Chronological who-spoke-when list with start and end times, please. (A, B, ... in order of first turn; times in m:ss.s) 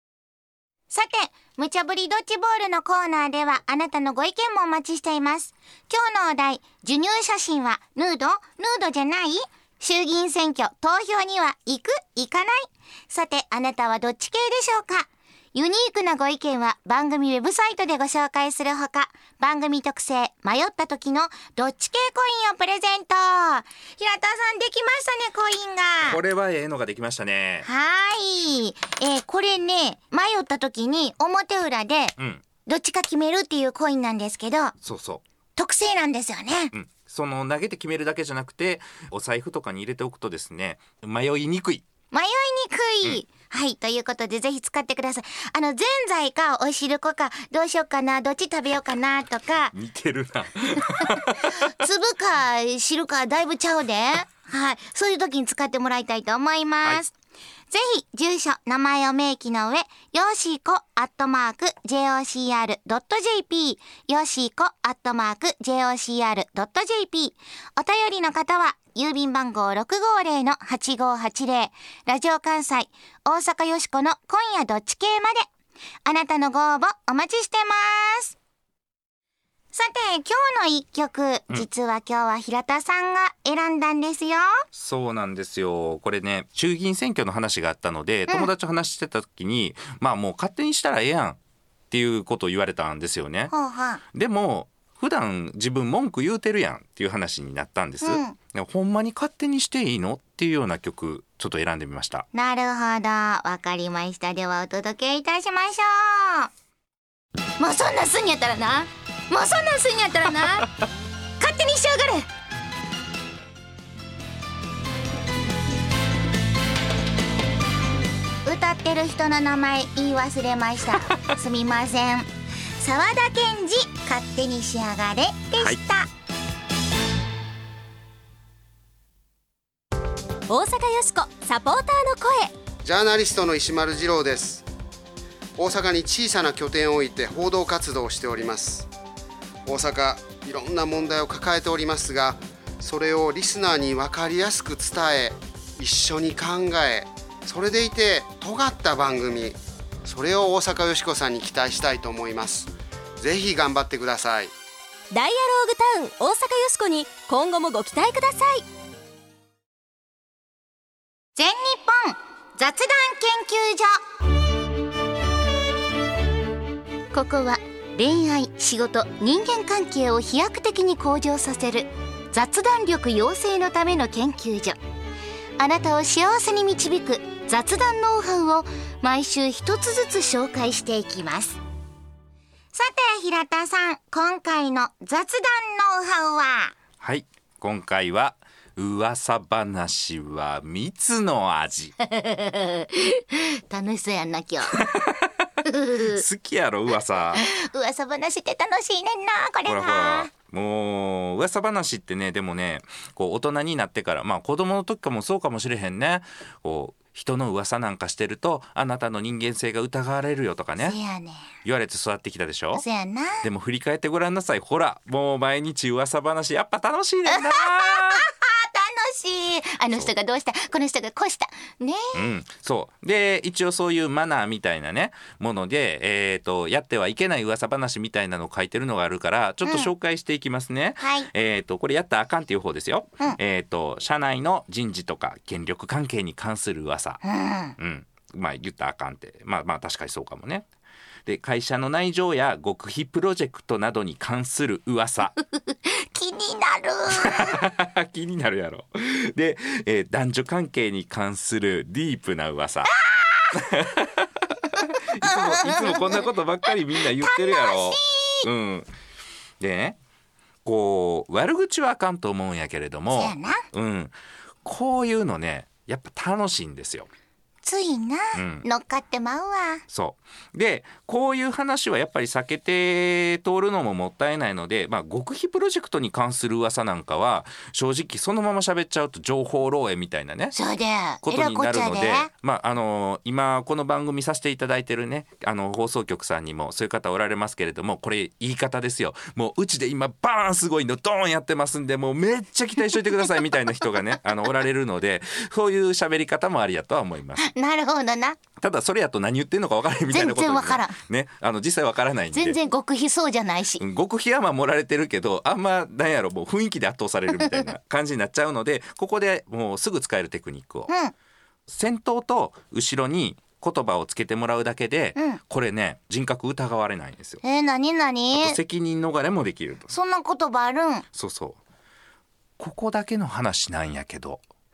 0:00.9-0:26.2 A
0:26.0-0:27.7 B
0:27.6-0:34.7 A
0:32.2-0:32.4 B
0:34.8-0:35.2 B
0:35.6-0:36.7 A
0:36.7-0:41.8 B
0:42.1-0:49.7 A
0:49.7-0:51.5 B
0:51.0-0:57.1 A
0:57.7-1:15.5 A
1:16.0-1:18.4 A
1:19.7-1:24.6 A
1:24.7-1:31.4 B
1:31.9-1:33.5 B
1:33.5-1:34.0 A
1:34.1-1:42.3 B
1:38.0-1:38.4 A
1:42.3-1:46.5 A
1:47.6-1:50.7 A
1:51.4-1:52.3 A
1:58.4-2:06.1 A
2:10.5-2:12.5 C
2:12.8-2:14.7 D
2:15.6-2:18.9 D
2:19.7-2:34.5 D
2:35.1-2:38.6 C
2:41.4-2:44.0 A
2:47.1-2:54.8 A
2:55.6-3:01.6 A
3:02.7-3:06.7 A
3:07.0-3:11.9 B
3:12.0-3:14.8 A
3:14.8-3:15.3 B
3:15.6-3:16.2 A
3:16.0-3:17.4 B
3:17.4-3:20.3 A
3:19.7-3:31.0 B
3:30.8-3:31.5 A
3:31.6-3:32.8 B
3:32.7-3:33.4 A
3:33.4-3:38.2 B
3:37.3-3:42.2 A
3:42.1-3:57.2 B
3:49.6-3:49.9 A
3:51.0-3:51.3 A
3:57.2-3:57.8 A
3:57.8-4:00.7 B
4:01.3-4:05.3 B
4:05.7-4:07.6 A
4:07.2-4:12.9 B
4:12.9-4:13.6 A
4:13.5-4:18.9 B
4:14.8-4:18.5 A
4:19.6-4:20.0 B
4:20.6-4:24.1 B
4:23.1-4:23.7 A
4:24.6-4:27.1 B
4:27.6-4:29.8 A
4:28.4-4:28.7 B
4:29.9-4:40.6 B
4:40.5-4:42.3 A
4:41.2-4:57.5 B
4:57.4-4:58.4 A
4:58.6-5:02.6 B
5:00.1-5:01.0 A
5:02.3-5:03.8 A
5:03.8-5:10.9 B
5:10.9-5:11.1 A
5:11.7-5:17.4 B
5:17.4-5:18.6 A
5:18.3-5:19.9 B
5:19.9-5:21.0 A
5:21.1-5:21.6 B
5:22.6-5:24.4 B